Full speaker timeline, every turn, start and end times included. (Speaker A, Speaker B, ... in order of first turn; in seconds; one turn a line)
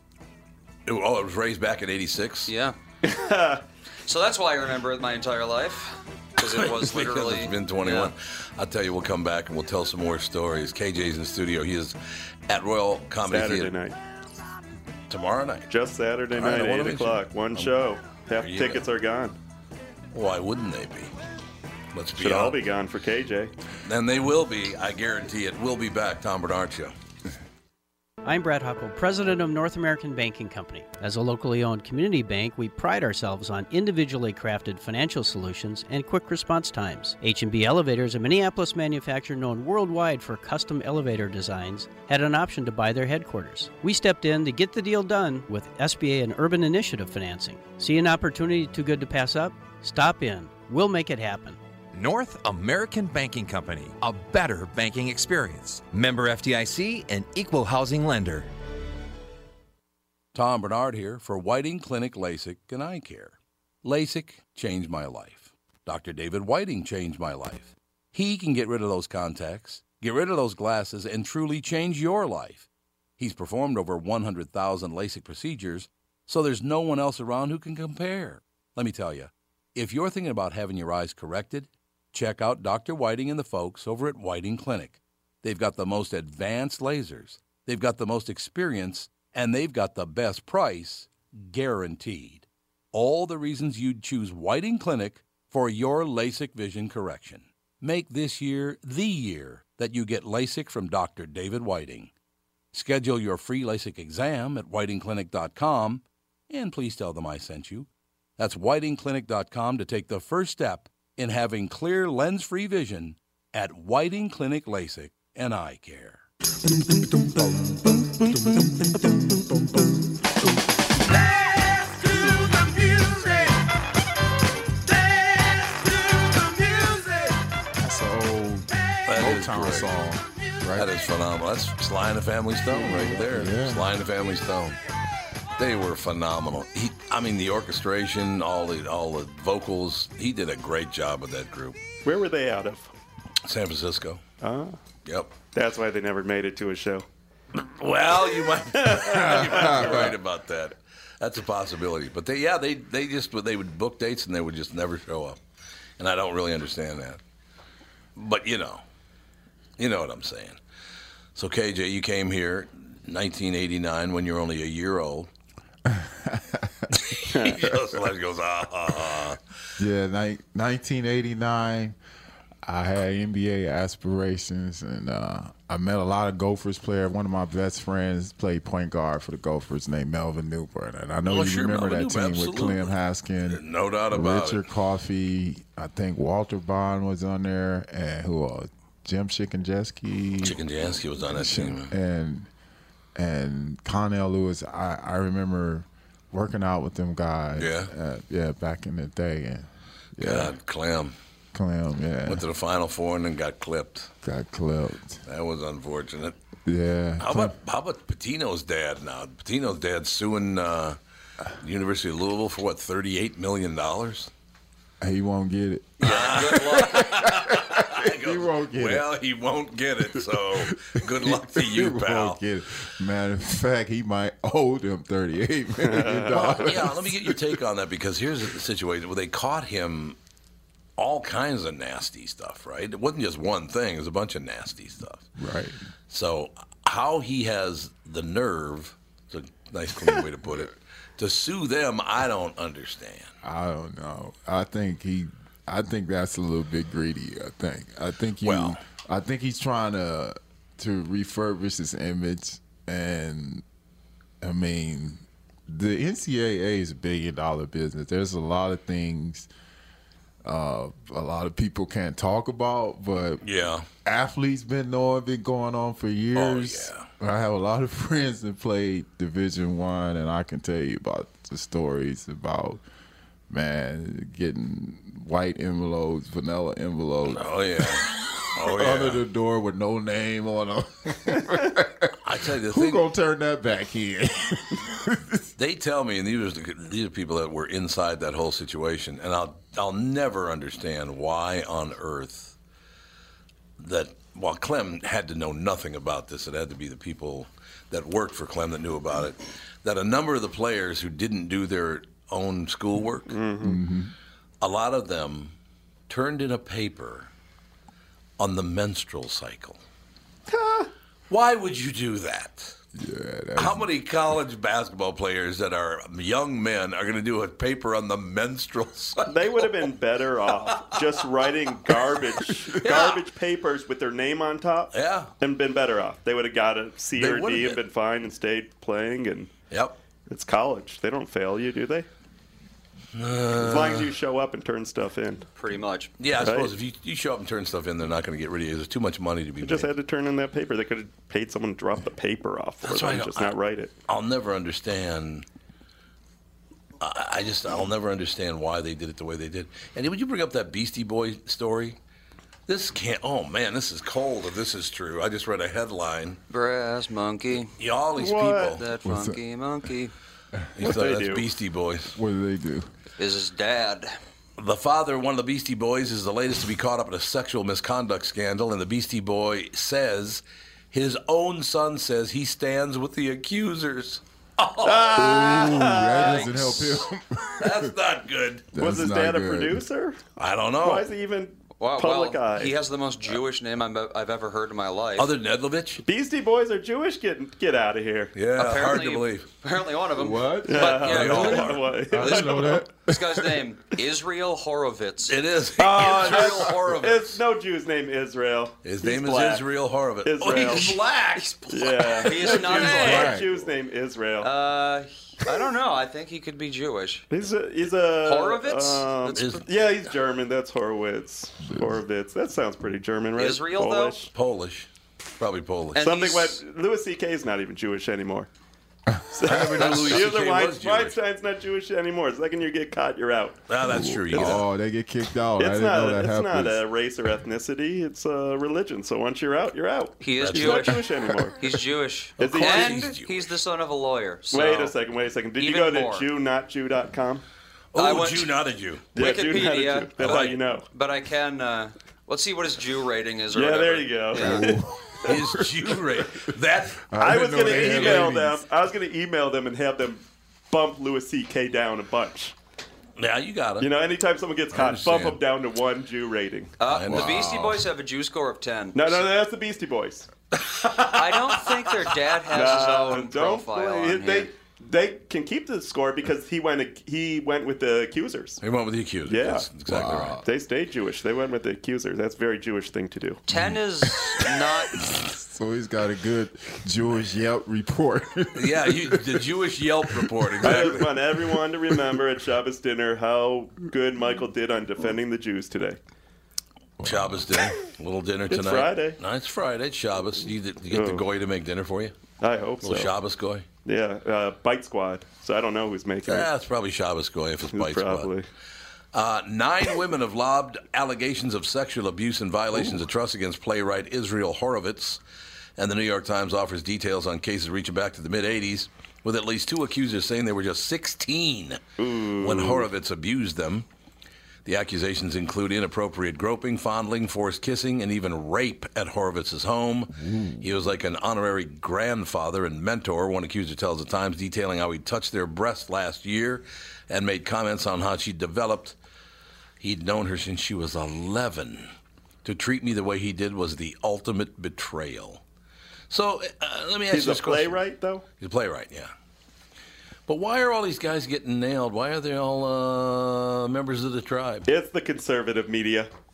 Speaker A: 0.9-2.5
Speaker B: 2.5-2.8
Speaker C: 3.0-3.6
Speaker B: 4.1-8.1
Speaker A: 6.4-13.7
Speaker C: 13.2-14.0
Speaker A: 15.1-15.7
Speaker C: 15.7-19.4
Speaker A: 16.3-17.7
Speaker A: 18.4-18.8
Speaker A: 20.1-21.1
Speaker A: 21.9-22.6
Speaker C: 22.2-23.5
Speaker A: 23.9-26.9
Speaker D: 28.2-51.6
Speaker E: 51.9-58.5
Speaker A: 60.3-102.1
Speaker A: 102.7-116.2
Speaker F: 127.8-130.9
Speaker A: 129.1-129.9
Speaker A: 130.8-134.8
Speaker F: 132.7-133.9
Speaker A: 135.6-141.8
Speaker C: 142.0-142.9
Speaker A: 143.4-144.2
Speaker C: 144.4-144.8
Speaker A: 145.1-145.3
Speaker C: 145.5-147.1
Speaker A: 147.5-155.4
Speaker C: 148.8-150.1
Speaker F: 149.1-150.2
Speaker A: 156.0-157.2
Speaker A: 158.2-158.8
Speaker A: 159.8-160.6
Speaker A: 161.3-165.3
Speaker F: 165.9-167.1
Speaker A: 166.9-169.4
Speaker C: 167.3-167.7
Speaker F: 169.8-172.0
Speaker F: 172.6-190.6
Speaker A: 181.3-182.9
Speaker A: 183.5-184.6
Speaker A: 190.4-191.9
Speaker F: 191.2-192.5
Speaker F: 193.2-200.6
Speaker A: 197.6-197.9
Speaker A: 200.2-201.2
Speaker F: 201.5-202.4
Speaker A: 202.3-204.1
Speaker F: 204.2-205.2
Speaker A: 205.3-206.4
Speaker F: 206.7-207.6
Speaker A: 207.2-211.0
Speaker A: 211.6-214.3
Speaker F: 215.0-219.1
Speaker B: 216.0-217.1
Speaker A: 216.0-222.4
Speaker F: 220.1-227.6
Speaker C: 225.8-226.7
Speaker A: 226.3-230.2
Speaker A: 231.0-235.3
Speaker F: 235.4-235.8
Speaker A: 236.1-243.3
Speaker F: 243.4-253.6
Speaker A: 248.4-248.8
Speaker F: 254.4-259.5
Speaker F: 260.4-263.4
Speaker A: 263.4-263.9
Speaker F: 264.1-272.8
Speaker A: 266.4-267.1
Speaker F: 273.5-285.4
Speaker A: 277.3-279.2
Speaker A: 282.2-283.0
Speaker A: 285.6-292.6
Speaker A: 293.8-303.4
Speaker C: 303.3-303.8
Speaker F: 303.6-304.1
Speaker A: 304.6-305.5
Speaker A: 306.1-307.3
Speaker A: 308.4-309.8
Speaker C: 310.5-310.9
Speaker A: 311.3-312.8
Speaker F: 312.9-313.9
Speaker A: 313.6-319.6
Speaker C: 319.2-329.5
Speaker A: 322.8-323.2
Speaker A: 324.9-325.3
Speaker A: 327.2-327.8
Speaker A: 329.7-330.0
Speaker C: 330.3-332.1
Speaker A: 333.1-334.1
Speaker C: 333.6-335.5
Speaker B: 335.6-336.1
Speaker A: 336.2-339.9
Speaker C: 336.4-336.7
Speaker C: 339.6-343.9
Speaker A: 342.8-345.5
Speaker A: 347.0-352.0
Speaker A: 352.7-356.4
Speaker B: 356.5-357.7
Speaker A: 357.8-358.8
Speaker C: 358.2-358.8
Speaker B: 358.8-360.1
Speaker F: 359.0-359.4
Speaker A: 360.8-362.2
Speaker C: 360.8-361.5
Speaker F: 362.1-362.9
Speaker B: 363.2-364.2
Speaker A: 364.6-377.0
Speaker C: 374.8-376.5
Speaker F: 375.2-377.9
Speaker B: 376.1-376.6
Speaker A: 377.6-378.7
Speaker F: 378.7-379.9
Speaker C: 378.8-380.2
Speaker A: 380.4-381.1
Speaker C: 380.8-382.7
Speaker B: 381.8-385.3
Speaker A: 385.2-386.0
Speaker C: 386.1-388.3
Speaker A: 388.3-389.5
Speaker B: 388.6-395.4
Speaker F: 390.1-393.6
Speaker C: 390.7-392.8
Speaker A: 391.0-391.9
Speaker A: 395.3-397.4
Speaker C: 395.8-399.7
Speaker B: 395.9-396.8
Speaker A: 398.8-403.1
Speaker C: 400.2-401.0
Speaker B: 400.8-403.4
Speaker C: 401.7-404.5
Speaker F: 402.9-403.5
Speaker B: 404.4-407.3
Speaker C: 407.3-414.3
Speaker B: 408.2-409.6
Speaker A: 409.4-409.7
Speaker F: 411.7-412.0
Speaker B: 413.4-414.2
Speaker A: 414.3-416.0
Speaker B: 415.9-416.6
Speaker C: 416.0-418.5
Speaker F: 419.1-419.8
Speaker C: 419.3-423.6
Speaker A: 419.4-421.2
Speaker B: 419.8-420.1
Speaker A: 423.7-424.7
Speaker F: 423.8-426.8
Speaker C: 424.3-424.6
Speaker C: 425.6-431.6
Speaker B: 430.2-434.9
Speaker A: 430.4-431.0
Speaker A: 432.4-433.5
Speaker C: 432.4-433.1
Speaker C: 434.5-437.4
Speaker B: 435.6-436.3
Speaker A: 437.9-439.1
Speaker B: 437.9-438.5
Speaker C: 439.1-440.9
Speaker B: 439.1-444.7
Speaker A: 440.2-440.6
Speaker C: 443.5-445.3
Speaker F: 444.4-445.9
Speaker A: 445.2-448.3
Speaker F: 447.1-448.6
Speaker C: 447.2-452.6
Speaker A: 453.2-453.9
Speaker C: 453.8-456.7
Speaker A: 454.7-455.4
Speaker B: 456.8-459.3
Speaker A: 456.9-457.8
Speaker F: 457.1-457.7
Speaker C: 458.9-460.3
Speaker A: 460.5-462.0
Speaker B: 461.0-464.5
Speaker C: 462.5-468.6
Speaker A: 468.6-470.4
Speaker C: 469.3-469.7
Speaker F: 469.9-470.5
Speaker C: 470.4-473.4
Speaker B: 473.5-475.1
Speaker F: 473.5-479.5
Speaker A: 478.6-481.2
Speaker F: 480.1-480.8
Speaker C: 480.6-486.0
Speaker F: 487.0-487.7
Speaker A: 487.0-492.1
Speaker C: 488.5-489.2
Speaker C: 490.9-491.2
Speaker C: 492.4-493.1
Speaker A: 492.8-493.7
Speaker C: 493.9-496.5
Speaker A: 496.3-498.3
Speaker C: 497.7-498.5
Speaker A: 499.1-505.2
Speaker A: 505.8-511.8
Speaker C: 512.0-512.9
Speaker A: 512.4-513.9
Speaker A: 514.6-529.0
Speaker F: 520.2-520.7
Speaker A: 529.8-531.9
Speaker A: 532.4-535.4
Speaker A: 536.1-537.8
Speaker C: 537.1-538.2
Speaker A: 538.4-539.1
Speaker A: 540.3-544.7
Speaker C: 544.7-546.1